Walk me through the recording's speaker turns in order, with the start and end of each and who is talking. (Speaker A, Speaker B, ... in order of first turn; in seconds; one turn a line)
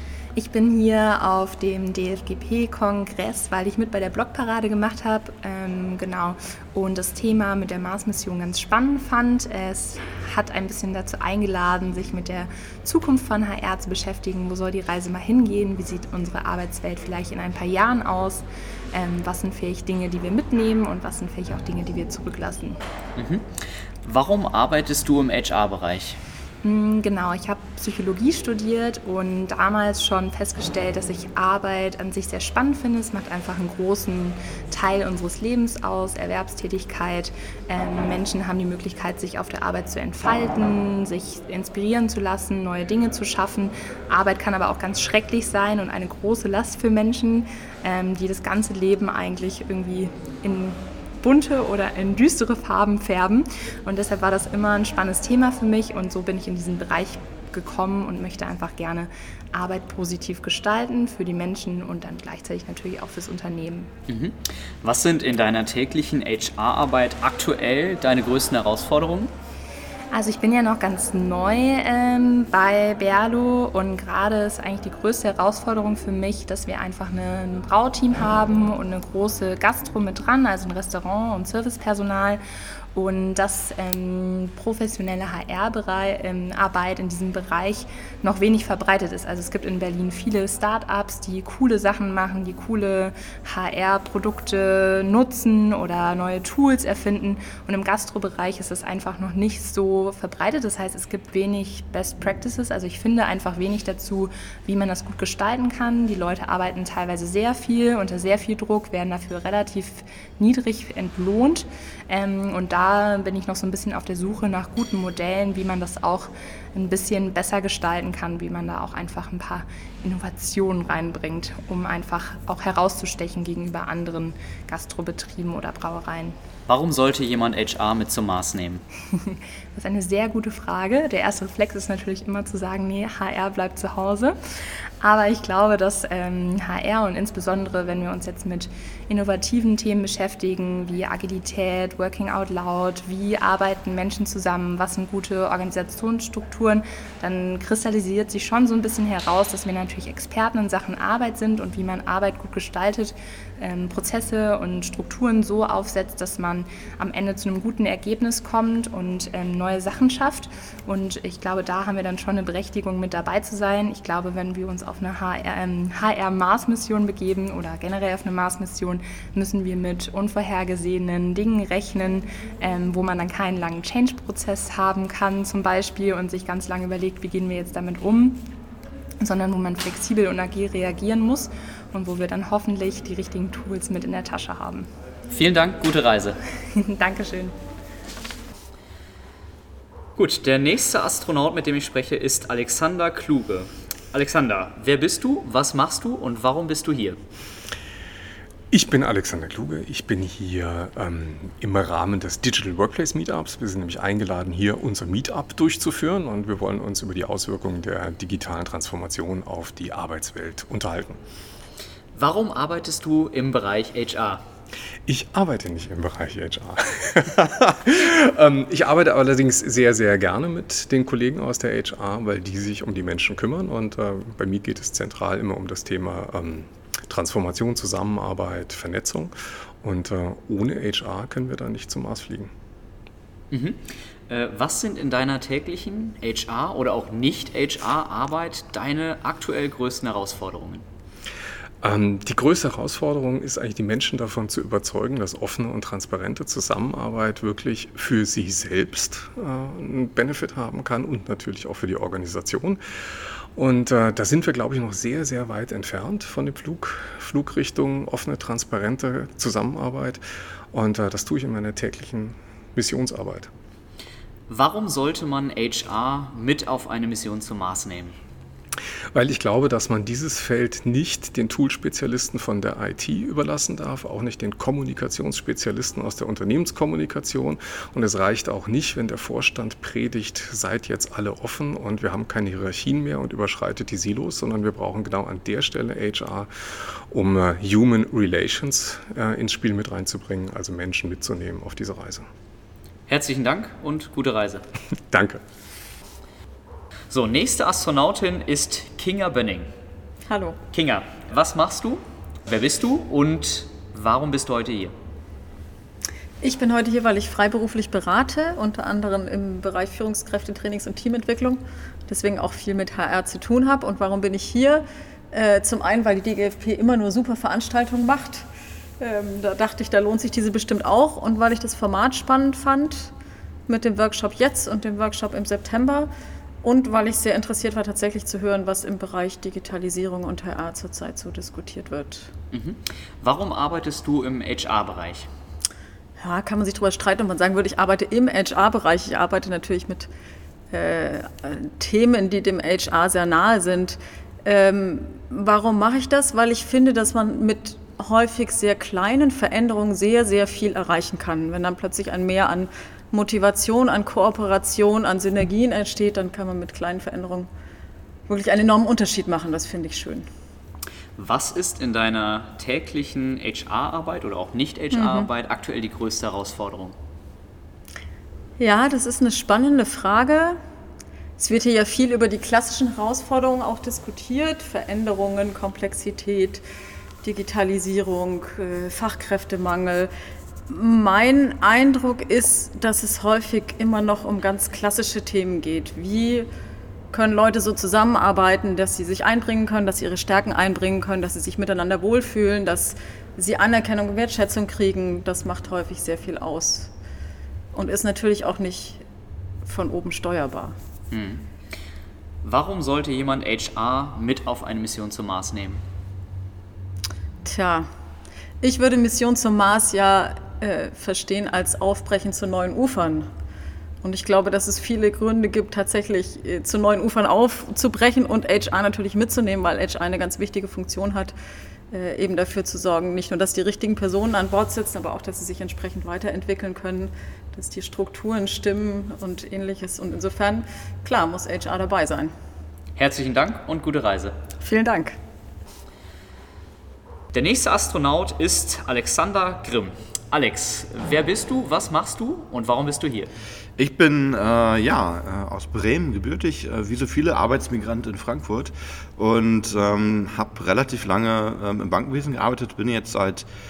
Speaker A: 0.3-22.8
Speaker B: 23.2-26.2
Speaker A: 26.6-63.9
Speaker B: 64.1-69.3
Speaker A: 70.1-82.4
Speaker A: 82.9-126.3
Speaker B: 126.7-128.8
Speaker A: 129.2-134.4
Speaker A: 135.0-178.4
Speaker A: 179.2-184.9
Speaker B: 185.3-186.4
Speaker A: 186.8-187.6
Speaker B: 190.2-197.2
Speaker C: 198.7-211.2
Speaker B: 212.1-214.4
Speaker C: 215.1-232.5
Speaker B: 233.5-240.8
Speaker C: 241.8-263.5
Speaker B: 264.5-268.1
Speaker C: 269.1-292.3
Speaker B: 293.1-294.6
Speaker C: 295.1-295.4
Speaker B: 297.1-299.7
Speaker D: 300.3-300.6
Speaker B: 300.7-304.9
Speaker D: 306.4-318.5
Speaker D: 319.0-323.1
Speaker D: 323.7-326.1
Speaker D: 326.6-332.3
Speaker B: 332.5-335.3
Speaker D: 336.2-340.1
Speaker D: 340.7-357.5
Speaker D: 358.3-360.2
Speaker B: 361.1-366.9
Speaker D: 364.9-365.3
Speaker D: 368.6-370.6
Speaker D: 371.4-376.6
Speaker D: 377.2-380.1
Speaker D: 380.7-386.5
Speaker D: 387.1-396.9
Speaker D: 397.7-399.0
Speaker D: 399.6-400.7
Speaker B: 401.1-401.4
Speaker B: 402.4-405.8
Speaker D: 407.4-407.9
Speaker D: 408.6-413.3
Speaker D: 414.0-421.3
Speaker D: 421.9-432.3
Speaker B: 432.9-434.4
Speaker D: 434.6-435.1
Speaker B: 437.3-443.3
Speaker E: 443.8-453.5